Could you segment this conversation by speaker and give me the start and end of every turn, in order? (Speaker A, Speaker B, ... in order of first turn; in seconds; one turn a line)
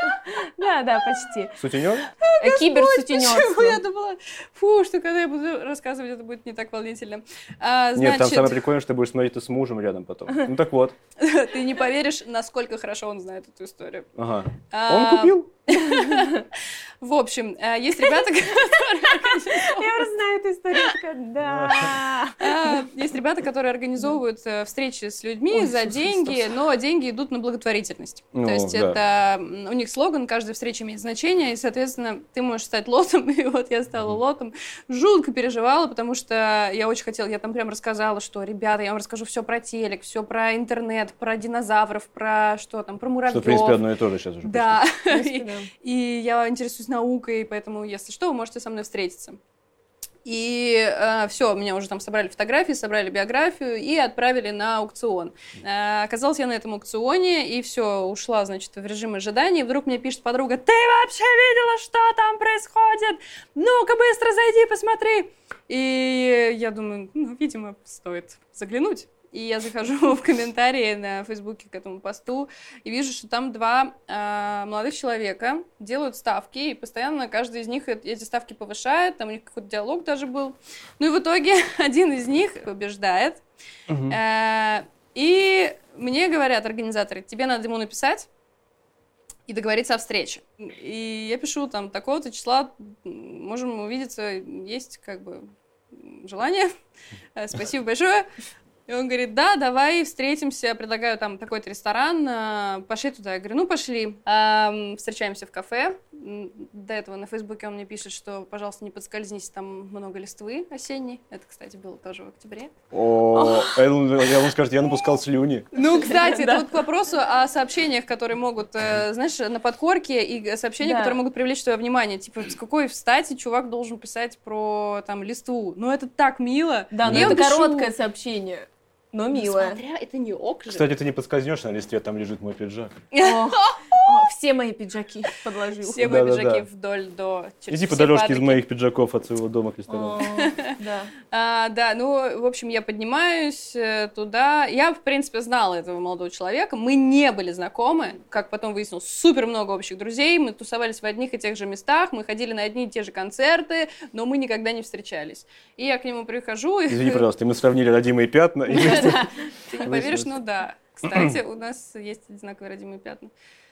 Speaker A: 0.2-1.6
Speaker B: 1.6-2.1
Speaker C: 2.2-8.6
Speaker A: 2.4-3.8
Speaker B: 7.9-10.9
Speaker C: 11.2-14.1
Speaker B: 14.2-15.5
Speaker C: 14.7-20.1
Speaker A: 15.9-16.3
Speaker A: 19.1-22.8
Speaker B: 21.4-21.9
Speaker C: 22.4-43.8
Speaker A: 25.5-26.4
Speaker B: 28.3-29.0
Speaker B: 43.3-44.8
Speaker C: 44.4-49.4
Speaker A: 45.1-45.7
Speaker C: 50.2-83.4
Speaker B: 83.9-84.2
Speaker C: 84.1-88.3
Speaker C: 89.5-96.7
Speaker C: 97.3-98.3
Speaker C: 98.9-112.7
Speaker B: 112.9-115.7
Speaker A: 113.3-113.8
Speaker C: 115.7-127.9
Speaker A: 116.0-116.7
Speaker A: 120.8-121.2
Speaker A: 126.9-129.8
Speaker B: 127.0-127.4
Speaker C: 129.3-130.9
Speaker B: 130.7-133.0
Speaker C: 133.1-134.1
Speaker A: 133.2-136.1
Speaker C: 135.8-138.6
Speaker B: 136.0-136.7
Speaker B: 137.7-140.2
Speaker A: 139.9-141.1
Speaker C: 140.3-140.7
Speaker C: 141.3-157.2
Speaker B: 156.9-159.3
Speaker C: 158.7-163.3
Speaker A: 158.8-159.2
Speaker B: 159.8-160.3
Speaker B: 161.1-161.3